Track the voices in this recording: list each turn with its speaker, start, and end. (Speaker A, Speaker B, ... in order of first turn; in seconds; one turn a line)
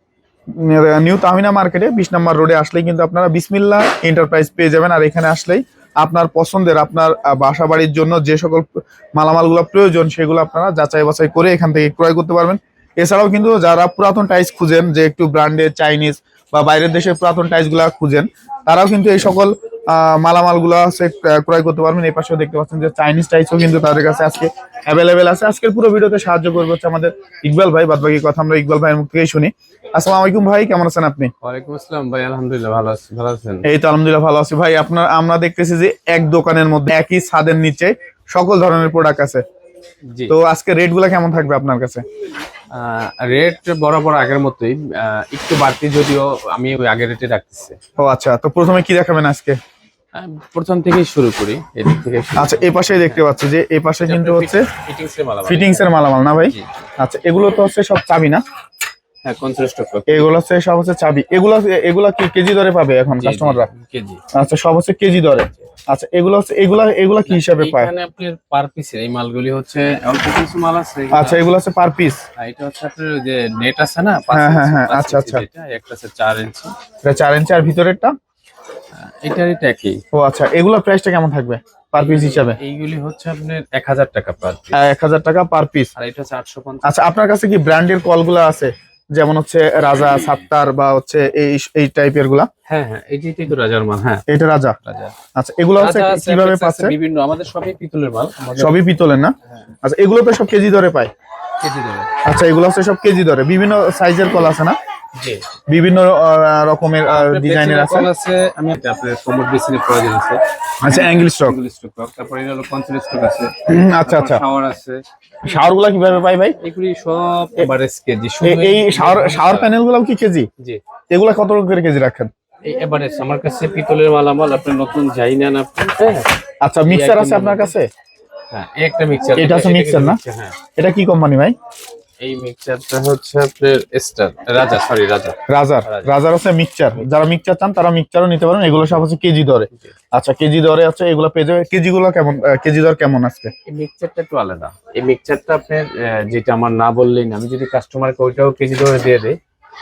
Speaker A: 0.5-31.3
Speaker B: 31.4-33.7
Speaker A: 33.6-39.4
Speaker A: 40.3-42.0
Speaker B: 42.7-47.8
Speaker A: 48.0-49.6
Speaker B: 50.1-53.2
Speaker A: 52.4-54.7
Speaker B: 54.0-55.9
Speaker A: 55.5-58.4
Speaker B: 59.2-60.4
Speaker A: 60.1-63.7
Speaker B: 63.2-64.2
Speaker A: 64.3-67.9
Speaker B: 67.3-71.5
Speaker A: 71.1-72.2
Speaker B: 72.4-76.7
Speaker A: 74.3-75.5
Speaker A: 77.0-78.1
Speaker B: 79.0-80.0
Speaker A: 80.1-82.6
Speaker B: 81.9-84.8
Speaker A: 84.7-85.9
Speaker B: 86.0-86.9
Speaker A: 86.8-92.5
Speaker B: 92.7-94.2
Speaker A: 94.3-94.8
Speaker B: 94.8-95.2
Speaker A: 95.3-96.9
Speaker B: 95.8-98.9
Speaker A: 98.6-101.1
Speaker B: 101.6-102.1
Speaker A: 102.2-104.8
Speaker B: 105.2-105.4
Speaker A: 105.7-108.1
Speaker B: 107.1-115.0
Speaker A: 110.8-111.6
Speaker A: 113.7-114.4
Speaker A: 115.4-116.6
Speaker B: 116.6-119.7
Speaker A: 118.4-120.5
Speaker A: 121.1-122.3
Speaker B: 122.7-126.3
Speaker A: 126.6-127.9
Speaker B: 126.8-127.7
Speaker B: 128.5-130.6
Speaker A: 129.3-130.2
Speaker A: 130.8-131.6
Speaker B: 132.2-136.1
Speaker A: 135.5-143.5
Speaker B: 143.7-149.4